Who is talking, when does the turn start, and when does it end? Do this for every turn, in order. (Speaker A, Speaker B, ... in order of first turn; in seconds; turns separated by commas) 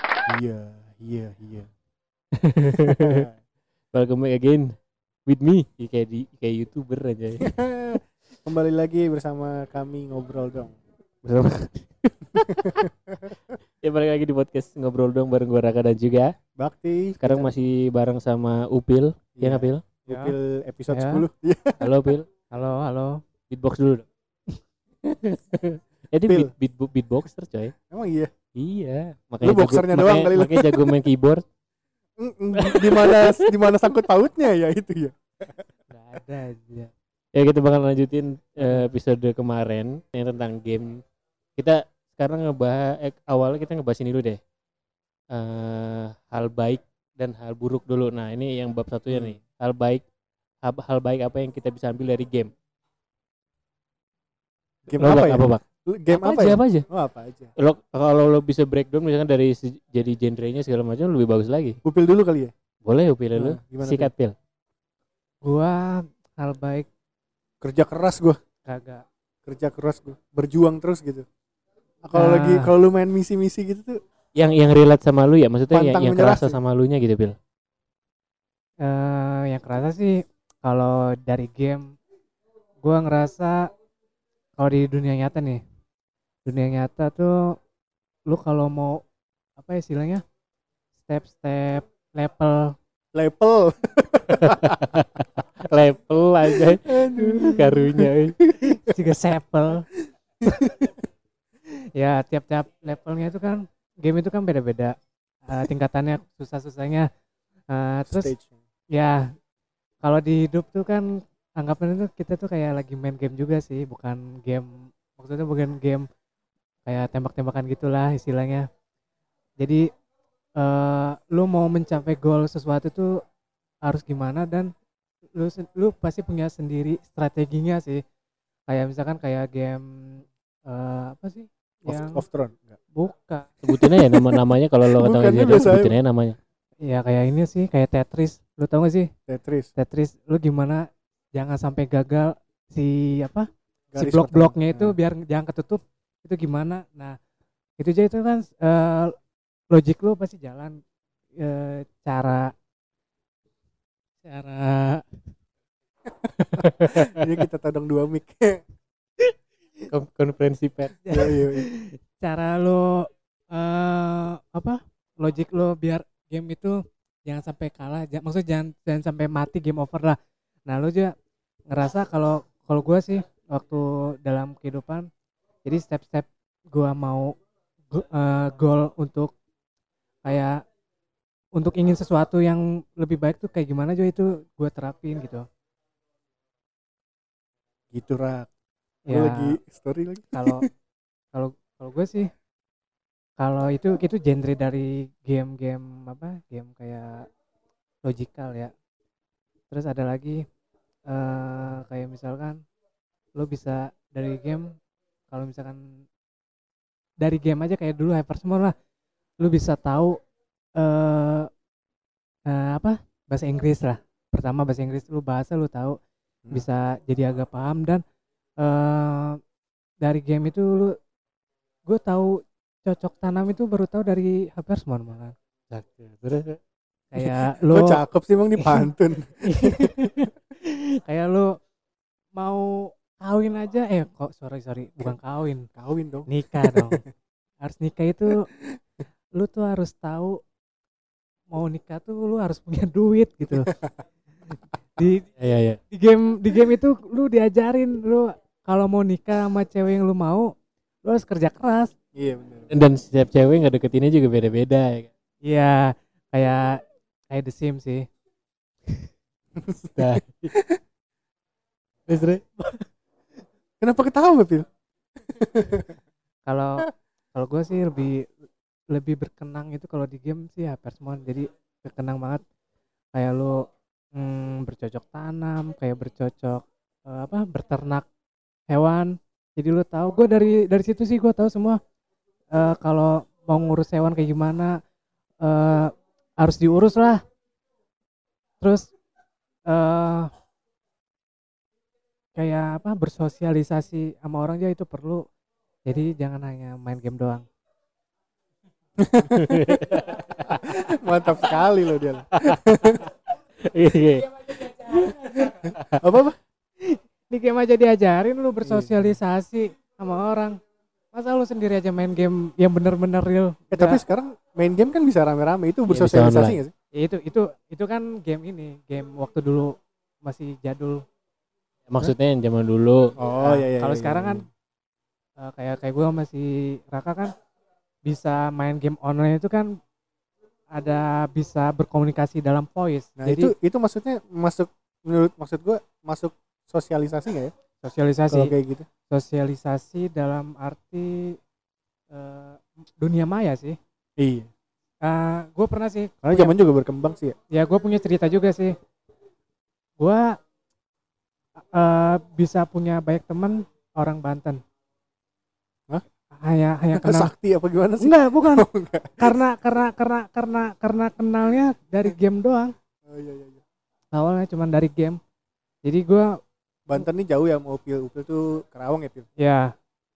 Speaker A: 0.3-1.7, Speaker B: 2.4-3.2, Speaker A: 2.8-3.4, Speaker B: 3.9-4.7, Speaker B: 5.2-7.5, Speaker A: 7.4-10.8, Speaker B: 11.2-12.8, Speaker A: 12.6-13.3, Speaker B: 13.8-16.3, Speaker A: 16.6-17.5, Speaker B: 17.2-19.8, Speaker A: 19.4-21.9, Speaker C: 20.1-20.4, Speaker C: 20.9-21.2, Speaker B: 21.8-22.3, Speaker C: 22.5-23.2, Speaker B: 23.5-24.1, Speaker B: 25.0-27.7, Speaker A: 26.2-26.5, Speaker A: 27.9-28.3, Speaker B: 28.5-31.4, Speaker A: 29.4-30.9, Speaker A: 32.2-35.6, Speaker B: 32.6-33.5, Speaker C: 35.9-36.9, Speaker B: 37.3-41.0, Speaker B: 41.5-44.4, Speaker B: 45.3-50.0, Speaker A: 49.1-49.4, Speaker B: 50.6-52.5, Speaker A: 54.9-57.5, Speaker B: 55.0-56.8, Speaker B: 57.6-61.8, Speaker A: 61.8-62.5, Speaker B: 62.8-64.3, Speaker A: 63.3-64.1, Speaker C: 65.4-66.9, Speaker A: 67.6-68.4, Speaker C: 68.6-69.0, Speaker A: 69.5-71.2, Speaker A: 72.0-74.0, Speaker C: 72.1-72.7, Speaker B: 74.3-77.3, Speaker A: 75.7-76.6, Speaker C: 78.8-81.9, Speaker C: 82.8-83.7, Speaker C: 84.6-85.6, Speaker C: 86.5-87.5, Speaker C: 88.3-89.0, Speaker C: 89.6-90.2, Speaker C: 91.0-92.7, Speaker A: 93.1-95.0, Speaker B: 94.3-98.4, Speaker A: 96.5-98.9, Speaker C: 98.7-99.9, Speaker A: 100.4-100.9, Speaker C: 101.9-104.9, Speaker C: 105.5-107.1, Speaker C: 107.7-108.3, Speaker A: 108.1-108.5, Speaker C: 108.9-109.3, Speaker C: 110.0-116.1, Speaker C: 116.8-118.7, Speaker C: 119.6-119.9, Speaker C: 120.6-123.2, Speaker C: 123.8-124.7, Speaker C: 125.3-128.0, Speaker C: 128.7-132.2, Speaker A: 131.8-132.8, Speaker C: 132.9-133.5, Speaker B: 133.6-136.4, Speaker A: 133.7-136.0, Speaker C: 136.8-139.1, Speaker A: 139.3-139.7, Speaker C: 139.8-147.2, Speaker A: 143.9-144.9, Speaker C: 147.8-149.1, Speaker C: 149.7-150.8, Speaker C: 151.4-152.5, Speaker C: 154.2-155.2, Speaker A: 156.1-158.6, Speaker B: 156.6-157.2, Speaker B: 159.9-161.0, Speaker C: 161.0-171.1, Speaker A: 161.1-161.7, Speaker C: 171.7-175.1, Speaker C: 175.6-177.3, Speaker C: 177.9-179.3, Speaker C: 180.2-180.6, Speaker C: 181.6-185.4, Speaker A: 187.9-188.5, Speaker C: 189.1-189.6, Speaker A: 189.1-190.7, Speaker C: 190.3-190.7, Speaker C: 191.3-192.3, Speaker C: 193.4-197.2, Speaker C: 198.0-198.7, Speaker C: 199.7-200.4, Speaker C: 201.1-202.6, Speaker C: 203.3-204.7, Speaker C: 205.3-205.8, Speaker C: 207.2-208.7, Speaker C: 209.4-210.2, Speaker C: 210.8-211.5, Speaker C: 212.5-216.0, Speaker C: 216.5-218.0, Speaker C: 218.6-219.4, Speaker C: 220.0-220.9, Speaker C: 221.9-225.3, Speaker B: 225.7-226.6, Speaker C: 227.1-228.0, Speaker A: 227.2-230.1, Speaker C: 229.4-231.5, Speaker C: 232.3-235.7, Speaker A: 235.7-236.9, Speaker C: 236.3-237.0, Speaker C: 237.6-238.5, Speaker C: 239.3-240.4, Speaker C: 241.5-243.7, Speaker A: 243.5-244.0, Speaker C: 245.0-245.3, Speaker B: 245.4-245.8, Speaker C: 245.9-250.5, Speaker C: 251.0-251.9, Speaker A: 252.1-252.7, Speaker B: 252.7-255.1, Speaker C: 255.4-256.8, Speaker C: 257.3-258.1, Speaker A: 259.6-260.8, Speaker B: 259.9-260.5, Speaker B: 262.1-262.7, Speaker A: 263.8-264.7, Speaker A: 265.2-266.0, Speaker C: 266.5-268.3, Speaker C: 268.9-272.4, Speaker C: 273.1-273.6, Speaker C: 274.1-278.1, Speaker C: 278.7-281.8, Speaker C: 282.5-284.8, Speaker C: 285.4-287.2, Speaker C: 288.6-288.9, Speaker C: 289.7-290.3, Speaker C: 292.4-295.2, Speaker C: 295.9-297.4, Speaker A: 299.0-303.0, Speaker B: 299.3-300.7, Speaker B: 302.3-303.1, Speaker B: 303.6-306.0, Speaker A: 305.5-306.4, Speaker C: 306.8-310.6, Speaker A: 308.6-309.1, Speaker C: 311.1-314.0, Speaker A: 313.7-316.7, Speaker B: 315.9-316.6, Speaker C: 317.0-321.0, Speaker B: 321.9-323.1, Speaker A: 323.2-324.5, Speaker C: 323.4-324.4, Speaker C: 325.4-327.3, Speaker C: 328.1-329.7, Speaker C: 330.7-333.5, Speaker A: 333.2-337.5, Speaker C: 337.8-338.5, Speaker A: 338.3-338.9, Speaker C: 339.1-341.4, Speaker C: 342.1-343.8, Speaker A: 344.2-344.5, Speaker C: 345.0-346.5, Speaker A: 346.2-347.4, Speaker C: 347.5-348.8, Speaker C: 350.0-350.4, Speaker C: 351.7-354.6, Speaker C: 356.3-357.3, Speaker A: 356.9-359.4, Speaker C: 358.0-358.6, Speaker C: 359.2-362.7, Speaker A: 363.0-363.6, Speaker C: 364.1-365.2, Speaker C: 365.8-366.4, Speaker A: 366.9-369.3, Speaker C: 369.4-369.7